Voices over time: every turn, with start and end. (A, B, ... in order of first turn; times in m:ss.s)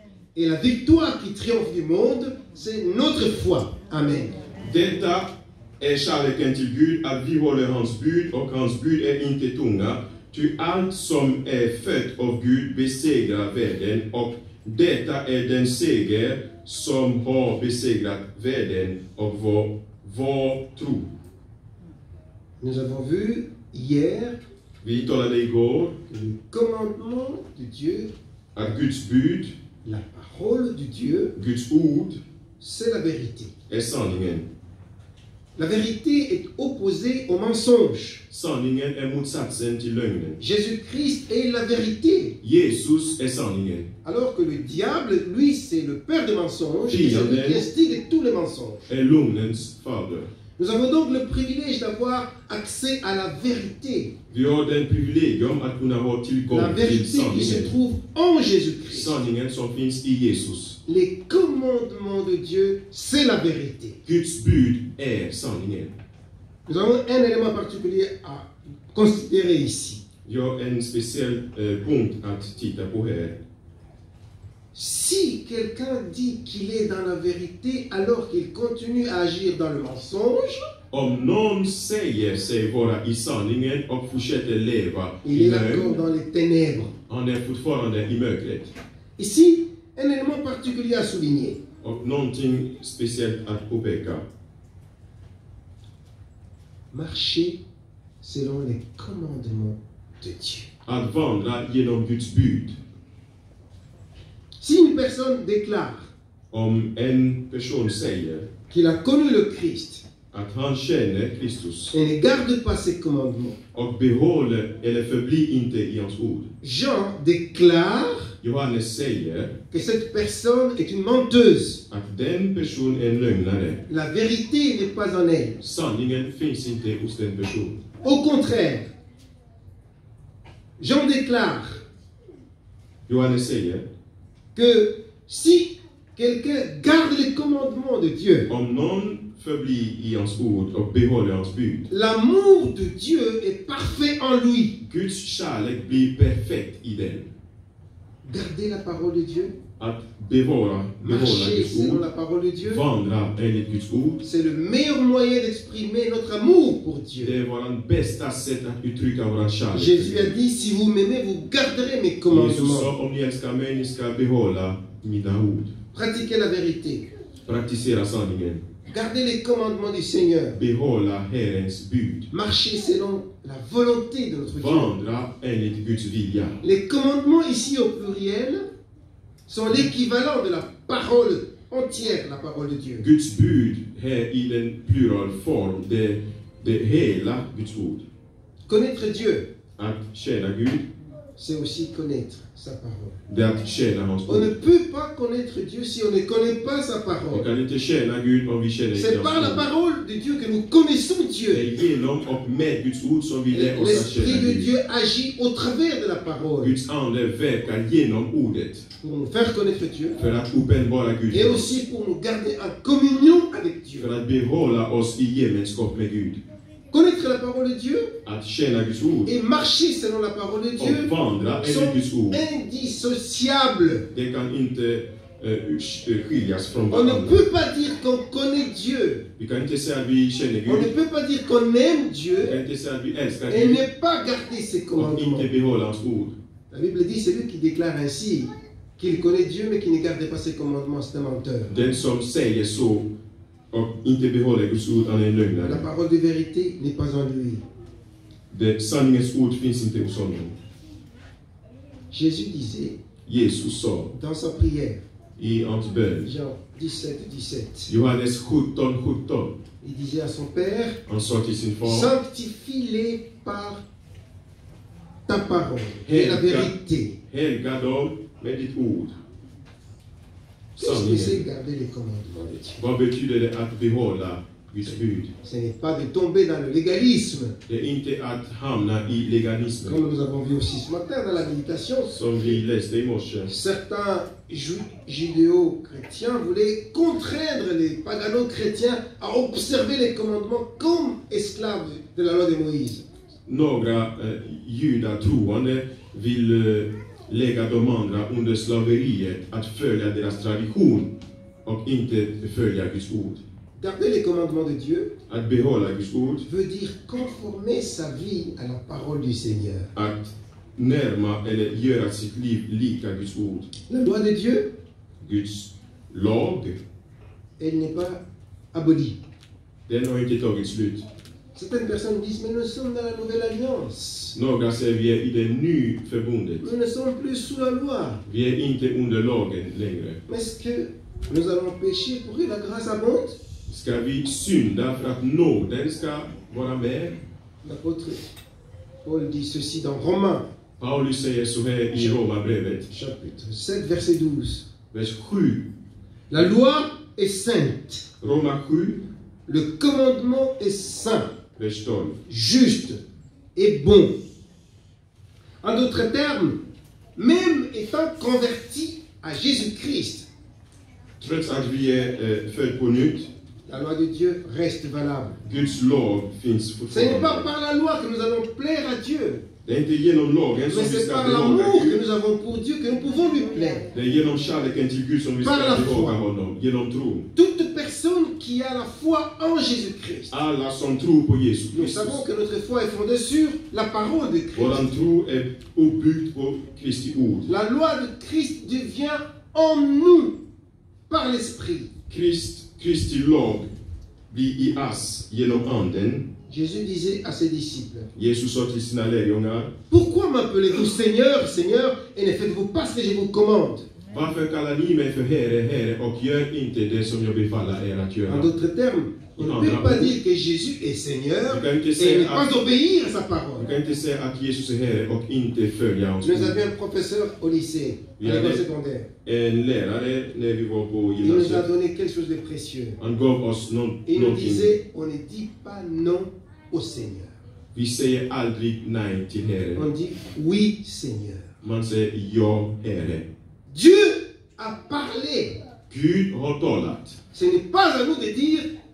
0:00.4-0:04.4 A
0:04.6-0:21.1 B
0:22.6-0:24.4 A
0:24.8-0:26.0 B
0:26.1-0:28.1 A
0:28.6-0:29.6 B
0:29.8-0:31.4 A
0:31.4-0:32.2 B
0:32.6-0:33.5 A
0:33.7-0:34.5 B
0:35.6-0:38.2 A
0:38.3-0:40.4 B
0:40.4-0:42.4 A
0:42.4-0:43.9 B
0:44.0-0:48.8 A
0:46.9-0:47.6 B
0:48.9-0:50.3 B
0:50.6-0:54.1 A
0:54.3-0:57.7 B
0:56.5-0:59.1 A
0:58.9-1:00.8 B
1:00.9-1:04.0 A
1:04.1-1:06.0 B
1:06.7-1:10.0 A
1:10.2-1:13.4 B
1:14.7-1:20.7 A
1:20.9-1:26.0 B
1:25.2-1:26.9 A
1:27.1-1:28.7 B
1:29.2-1:31.6 A
1:31.8-1:34.3 B
1:36.9-1:37.6 A
1:38.2-1:40.7 A
1:40.9-1:42.8 B
1:44.6-1:46.1 A
1:46.5-1:48.5 B
1:48.7-1:50.0 A
1:50.3-1:52.0 B
1:51.9-1:53.6 A
1:53.7-1:56.5 B
1:56.6-1:58.3 A
1:58.4-1:59.5 B
1:59.7-2:01.8 A
2:01.9-2:03.8 B
2:03.9-2:05.6 A
2:05.6-2:07.8 B
2:08.0-2:08.9 A
2:10.8-2:11.8 A
2:13.1-2:13.9 B
2:14.6-2:18.5 A
2:18.5-2:21.9 B
2:21.9-2:24.8 A
2:24.8-2:27.3 B
2:28.2-2:29.6 A
2:29.8-2:32.0 B
2:31.0-2:32.8 A
2:32.6-2:34.2 B
2:34.2-2:37.4 A
2:37.2-2:40.4 B
2:39.7-2:42.9 A
2:42.3-2:45.8 B
2:45.9-2:47.1 A
2:47.5-2:48.6 B
2:48.9-2:50.6 A
2:50.5-2:52.3 B
2:52.3-2:54.9 A
2:54.6-2:56.6 B
2:56.6-2:58.6 A
2:59.5-3:03.1 A
3:03.0-3:08.0 B
3:08.7-3:09.5 A
3:09.8-3:10.9 B
3:11.4-3:13.2 A
3:13.3-3:14.5 B
3:14.3-3:17.5 A
3:17.3-3:19.7 B
3:19.0-3:21.7 A
3:21.5-3:24.7 B
3:23.5-3:26.8 A
3:26.6-3:28.9 B
3:29.0-3:30.2 A
3:30.2-3:31.7 B
3:31.3-3:34.1 A
3:34.0-3:36.4 B
3:36.9-3:38.2 A
3:38.2-3:39.3 B
3:39.3-3:44.1 A
3:40.8-3:42.4 B
3:44.1-3:47.4 B
3:46.9-3:49.3 A
3:49.4-3:50.9 B
3:50.7-3:52.6 A
3:52.4-3:53.8 B
3:53.5-3:55.5 A
3:55.0-3:56.4 B
3:56.7-4:01.7 A
4:01.7-4:03.1 B
4:03.7-4:05.8 B
4:05.6-4:07.6 A
4:08.5-4:10.6 B
4:12.1-4:13.0 A
4:13.3-4:14.1 B
4:14.1-4:15.0 A
4:15.4-4:16.3 B
4:16.2-4:17.9 A
4:17.9-4:19.6 B
4:19.8-4:21.0 A
4:21.1-4:22.1 B
4:21.8-4:23.8 A
4:25.3-4:27.2 A
4:26.0-4:26.7 B
4:27.3-4:29.2 B
4:30.8-4:31.4 B
4:30.8-4:32.8 A
4:32.8-4:35.3 B
4:35.4-4:37.6 A
4:37.7-4:40.0 B
4:39.8-4:42.6 A
4:42.1-4:43.5 B
4:43.5-4:53.0 A
4:53.5-5:01.1 B
5:01.6-5:03.4 B
5:03.8-5:05.1 A
5:05.3-5:06.4 B
5:06.4-5:09.9 A
5:10.0-5:13.7 B
5:13.9-5:14.7 A
5:15.2-5:16.8 B
5:17.6-5:19.2 A
5:19.9-5:21.1 B
5:21.6-5:24.4 A
5:24.4-5:26.7 B
5:26.6-5:28.2 A
5:28.3-5:30.2 B
5:30.3-5:33.4 A
5:33.7-5:37.2 B
5:37.6-5:38.2 A
5:39.0-5:40.4 A
5:40.8-5:42.9 B
5:42.9-5:44.7 A
5:44.9-5:45.7 B
5:46.3-5:48.0 A
5:48.2-5:49.0 B
5:49.5-5:51.3 A
5:51.6-5:52.2 B
5:52.3-5:53.0 A
5:53.6-5:54.1 A
5:55.6-5:56.6 A
5:57.2-6:00.3 A
6:01.2-6:03.3 B
6:03.7-6:05.4 A
6:05.4-6:07.5 B
6:06.9-6:09.4 A
6:09.6-6:12.0 B
6:10.7-6:13.9 A
6:13.9-6:17.3 B
6:15.4-6:16.2 A
6:17.4-6:20.3 A
6:20.3-6:22.2 B
6:21.7-6:25.0 A
6:24.6-6:27.5 B
6:27.5-6:30.4 A
6:31.1-6:31.9 A
6:32.1-6:33.7 B
6:34.3-6:36.3 B
6:36.5-6:38.1 A
6:38.1-6:39.7 B
6:39.9-6:43.9 A
6:44.1-6:48.5 B
6:48.3-6:53.7 A
6:49.4-6:50.2 B
6:51.5-6:52.5 B
6:53.6-6:56.6 B
6:56.2-6:59.1 A
6:58.2-6:58.6 B
6:59.2-7:01.7 B
7:01.2-7:03.0 A
7:03.0-7:04.7 B
7:04.1-7:07.4 A
7:07.8-7:09.9 B
7:09.8-7:11.5 A
7:11.6-7:13.3 B
7:13.7-7:15.6 A
7:15.9-7:17.2 B
7:17.3-7:18.7 A